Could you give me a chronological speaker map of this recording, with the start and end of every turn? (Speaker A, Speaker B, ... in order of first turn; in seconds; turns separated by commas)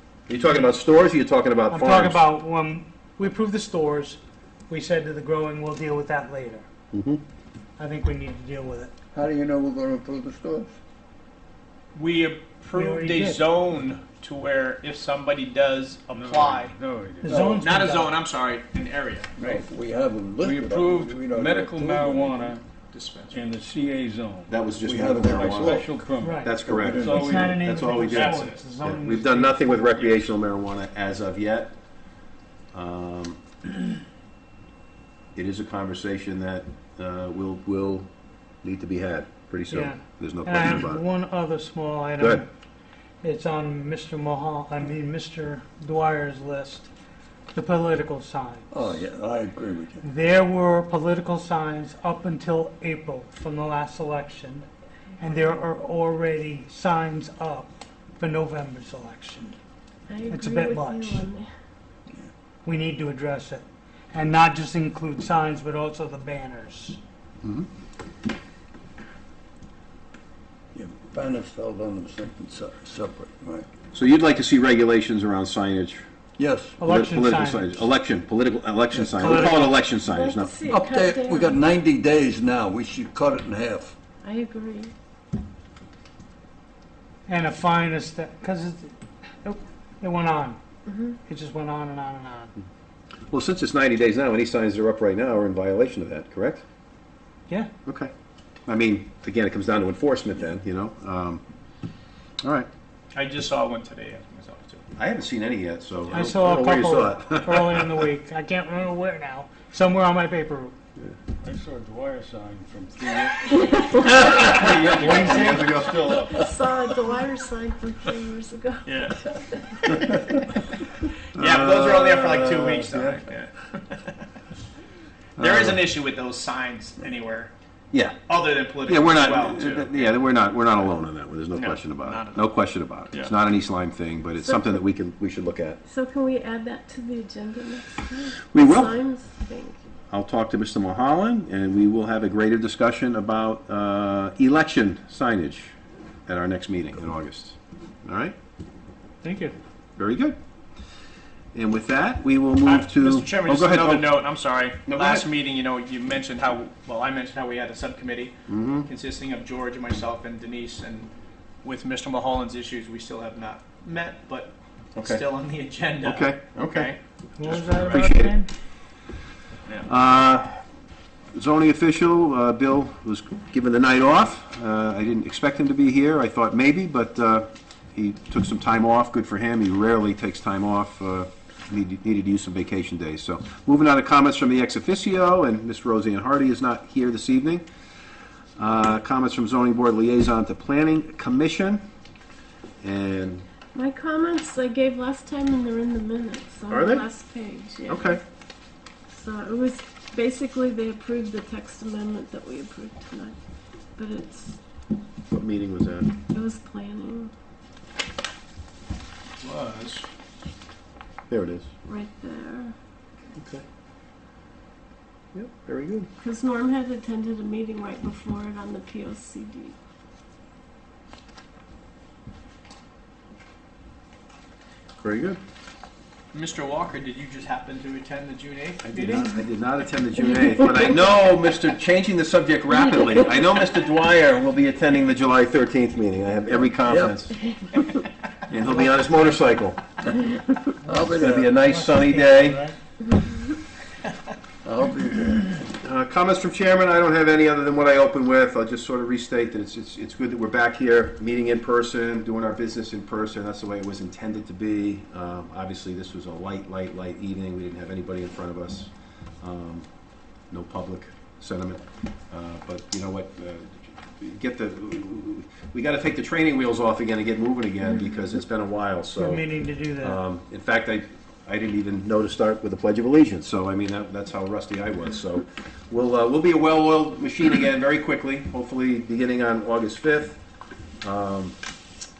Speaker A: 0.3-2.2, Speaker B: 1.7-6.7, Speaker A: 6.9-7.2, Speaker B: 7.8-8.9, Speaker C: 9.1-10.7, Speaker D: 11.9-16.7, Speaker B: 12.7-13.4, Speaker E: 16.1-17.7, Speaker B: 17.2-18.1, Speaker D: 17.6-19.4, Speaker C: 19.4-22.5, Speaker E: 20.4-22.6, Speaker D: 22.9-23.5, Speaker E: 23.3-28.2, Speaker A: 24.5-25.9, Speaker C: 24.9-25.9, Speaker B: 26.2-29.9, Speaker A: 26.4-31.7, Speaker C: 26.6-27.5, Speaker D: 28.1-28.6, Speaker A: 32.7-33.4, Speaker A: 35.3-38.1, Speaker A: 38.6-41.0, Speaker B: 39.7-42.5, Speaker A: 42.2-42.4, Speaker B: 43.2-46.9, Speaker B: 47.5-48.9, Speaker C: 48.7-50.0, Speaker B: 50.0-54.6, Speaker B: 55.2-59.6, Speaker F: 60.1-61.5, Speaker B: 60.3-61.3, Speaker B: 62.6-67.0, Speaker C: 70.7-73.7, Speaker A: 73.9-76.0, Speaker C: 76.4-76.8, Speaker B: 76.8-77.8, Speaker A: 76.8-80.5, Speaker C: 78.9-79.5, Speaker B: 79.1-79.7, Speaker F: 80.0-81.6, Speaker C: 80.7-84.0, Speaker F: 84.2-84.9, Speaker B: 87.3-90.6, Speaker F: 90.9-91.2, Speaker B: 91.2-92.5, Speaker A: 93.3-96.6, Speaker A: 97.8-98.1, Speaker A: 98.7-101.4, Speaker A: 102.4-102.7, Speaker D: 103.1-104.8, Speaker A: 105.0-108.0, Speaker B: 106.1-110.7, Speaker E: 111.4-114.2, Speaker F: 113.5-114.9, Speaker A: 114.0-116.3, Speaker B: 114.9-115.8, Speaker F: 115.9-119.5, Speaker D: 118.8-120.5, Speaker A: 121.3-123.2, Speaker D: 121.4-124.2, Speaker D: 125.4-127.5, Speaker A: 125.4-125.8, Speaker A: 127.9-128.2, Speaker D: 128.3-130.2, Speaker A: 128.8-135.8, Speaker D: 131.5-132.5, Speaker F: 134.4-134.8, Speaker F: 135.8-139.8, Speaker A: 138.4-138.9, Speaker A: 140.1-145.7, Speaker A: 146.3-148.3, Speaker D: 149.2-149.5, Speaker A: 150.0-150.4, Speaker A: 151.5-154.1, Speaker D: 152.6-158.3, Speaker A: 154.8-155.2, Speaker A: 158.5-158.9, Speaker D: 158.8-161.1, Speaker D: 161.6-168.1, Speaker A: 164.9-165.2, Speaker A: 166.0-166.9, Speaker B: 167.4-168.5, Speaker A: 167.4-168.4, Speaker A: 169.8-170.6, Speaker A: 171.3-187.6, Speaker A: 188.6-191.8, Speaker A: 192.8-193.4, Speaker F: 193.7-198.2, Speaker A: 196.7-197.1, Speaker A: 197.9-198.2, Speaker F: 199.1-203.4, Speaker F: 203.9-204.6, Speaker A: 205.3-206.1, Speaker F: 206.3-207.3, Speaker D: 209.4-210.1, Speaker A: 211.3-211.7, Speaker F: 211.8-212.7, Speaker A: 213.3-213.6, Speaker A: 215.3-216.1, Speaker F: 216.2-219.8, Speaker A: 225.0-225.4, Speaker D: 226.3-229.4, Speaker A: 228.8-237.4, Speaker C: 236.7-237.2, Speaker F: 237.4-238.0, Speaker A: 238.5-239.8, Speaker B: 240.8-242.8, Speaker C: 240.8-241.5, Speaker A: 241.1-242.6, Speaker F: 243.1-243.5, Speaker C: 244.6-245.5, Speaker A: 245.8-258.9, Speaker A: 259.4-259.9, Speaker A: 260.5-269.4, Speaker B: 269.2-270.2, Speaker A: 270.0-280.4, Speaker A: 281.0-281.6